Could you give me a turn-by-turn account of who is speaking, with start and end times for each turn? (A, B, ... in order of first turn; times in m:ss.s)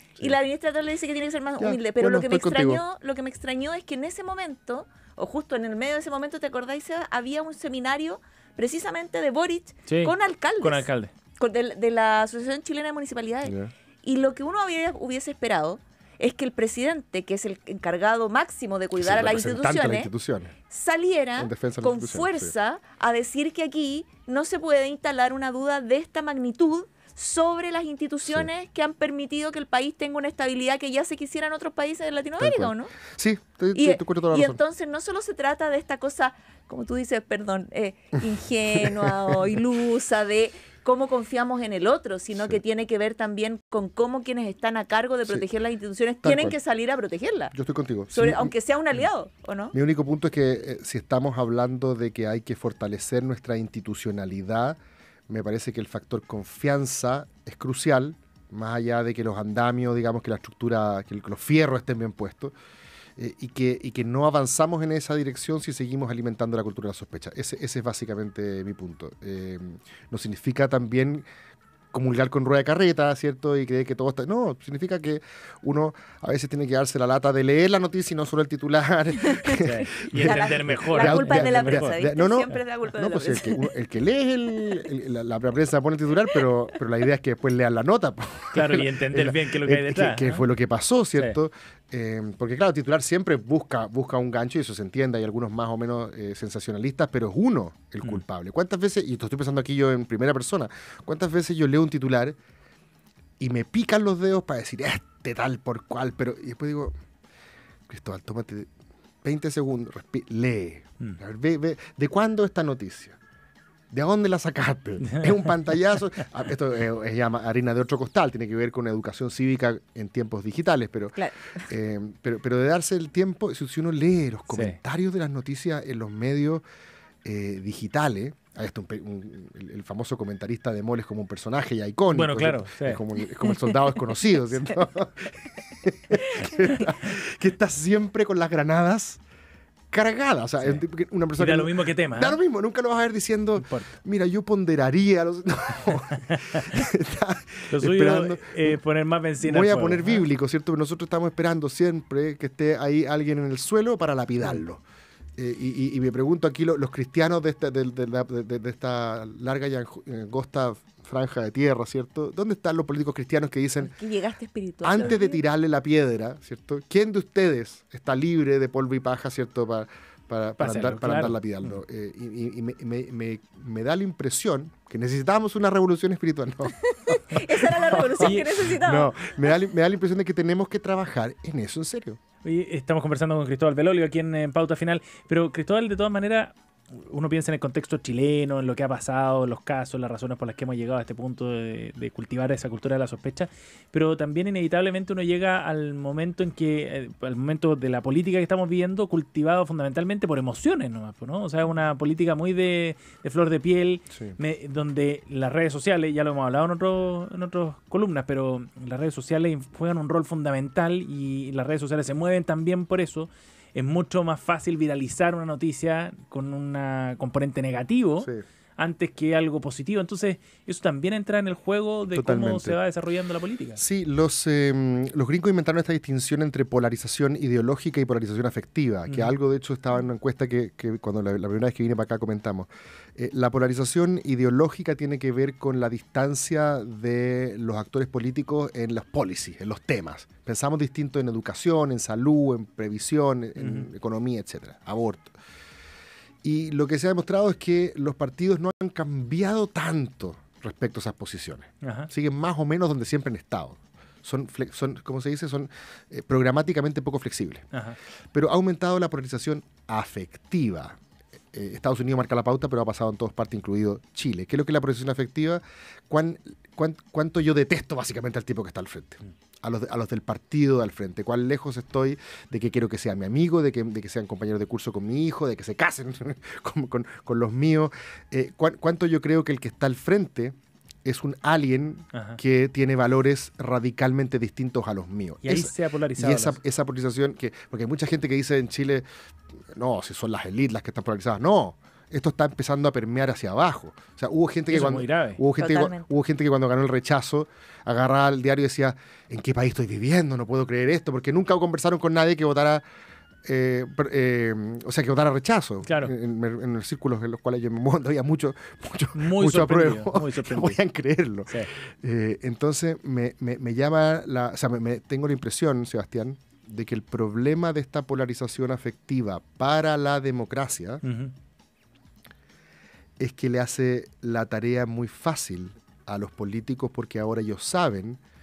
0:00.2-0:20.1 A
0:01.6-0:02.8 B
0:09.9-0:11.1 C
0:13.4-0:13.7 B
0:19.0-0:20.6 B
0:20.7-0:32.9 A
0:21.4-0:22.5 B
0:32.4-0:34.6 B
0:33.7-0:47.5 A
0:38.8-0:39.4 B
0:46.2-0:46.6 B
0:47.5-0:48.5 B
0:48.1-0:49.7 A
0:49.7-1:02.5 B
1:03.2-1:11.2 B
1:11.9-1:42.4 B
1:19.2-1:19.6 A
1:19.6-1:22.0 C
1:20.2-1:23.7 A
1:28.5-1:30.4 C
1:43.4-1:46.9 B
1:47.9-1:48.7 B
1:49.2-1:53.2 B
1:53.9-2:06.6 B
1:55.1-1:55.5 C
2:01.2-2:01.6 A
2:04.5-2:04.8 C
2:07.2-2:19.2 B
2:12.1-2:13.0 C
2:19.9-2:28.8 B
2:21.4-2:22.4 C
2:23.6-2:23.9 C
2:26.3-2:26.6 C
2:27.7-2:30.2 C
2:29.4-2:34.8 B
2:35.4-2:43.9 B
2:43.8-2:45.4 A
2:44.8-3:02.2 B
2:50.6-2:51.8 C
2:56.9-2:59.5 A
2:58.2-2:58.6 C
3:02.4-3:43.8 C
3:42.1-3:42.8 B
3:43.8-4:05.3 B
3:49.1-3:49.4 C
4:03.6-4:03.9 C
4:06.4-4:17.6 B
4:11.8-4:12.1 C
4:18.3-4:21.0 B
4:21.5-4:49.1 B
4:42.1-4:42.4 C
4:45.4-4:46.6 C
4:49.7-5:02.8 B
4:54.7-4:55.4 C
4:55.6-4:56.1 A
5:03.4-5:21.0 B
5:05.9-5:06.1 C
5:09.2-5:10.8 C
5:21.0-5:21.3 C
5:23.2-5:28.2 B